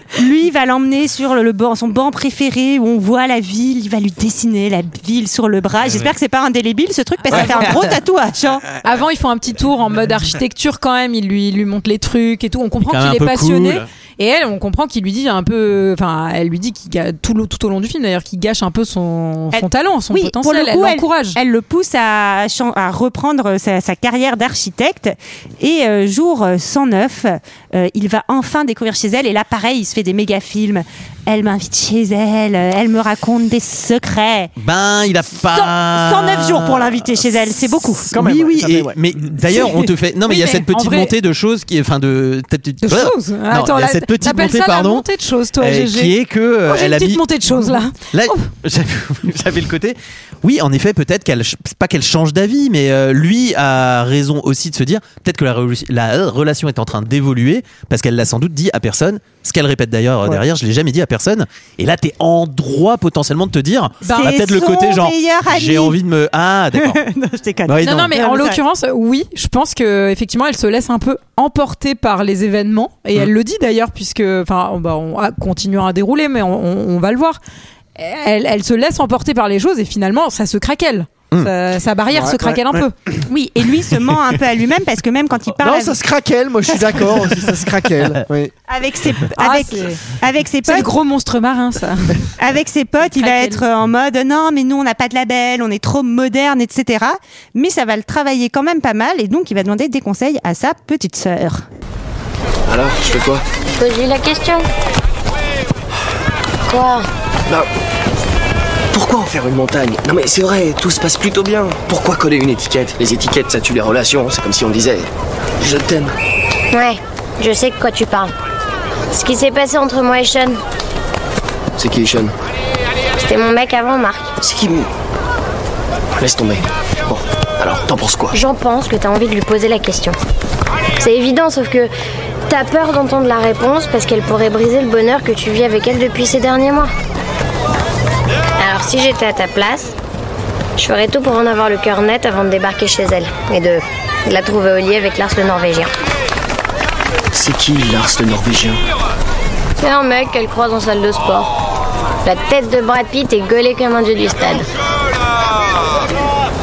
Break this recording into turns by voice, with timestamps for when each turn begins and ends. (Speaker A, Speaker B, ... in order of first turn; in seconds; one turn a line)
Speaker A: 0.1-8.7
Speaker B: 7.3-7.7
Speaker B: 8.8-21.4
Speaker C: 12.9-13.9
Speaker A: 19.5-34.5
Speaker C: 34.6-37.3
Speaker A: 35.5-38.1
Speaker D: 38.1-39.0
Speaker C: 38.1-45.1
Speaker B: 40.3-41.1
Speaker B: 42.8-46.1
Speaker C: 45.6-67.0
Speaker B: 46.7-48.5
Speaker B: 64.0-64.4
Speaker A: 64.1-66.0
Speaker A: 66.7-68.6
Speaker C: 67.7-68.1
Speaker B: 67.8-77.4
Speaker B: 78.0-83.0
Speaker D: 82.2-82.4
Speaker A: 83.3-86.0
Speaker D: 85.6-88.5
Speaker A: 86.7-87.5
Speaker A: 88.7-90.9
Speaker B: 89.4-90.0
Speaker B: 90.7-92.3
Speaker A: 92.4-101.7
Speaker B: 93.1-93.6
Speaker E: 102.7-103.4
Speaker F: 103.8-104.7
Speaker F: 106.7-107.0
Speaker E: 108.9-115.1
Speaker E: 115.6-116.1
Speaker F: 116.7-118.3
Speaker F: 119.1-120.6
Speaker E: 121.8-122.3
Speaker F: 123.2-124.3
Speaker E: 124.4-124.9
Speaker E: 126.2-128.3
Speaker F: 128.3-130.2
Speaker F: 131.0-131.9
Speaker F: 132.5-136.9
Speaker F: 138.6-139.9
Speaker F: 140.8-145.9
Speaker E: 147.3-148.8
Speaker F: 149.8-151.5
Speaker F: 152.2-154.7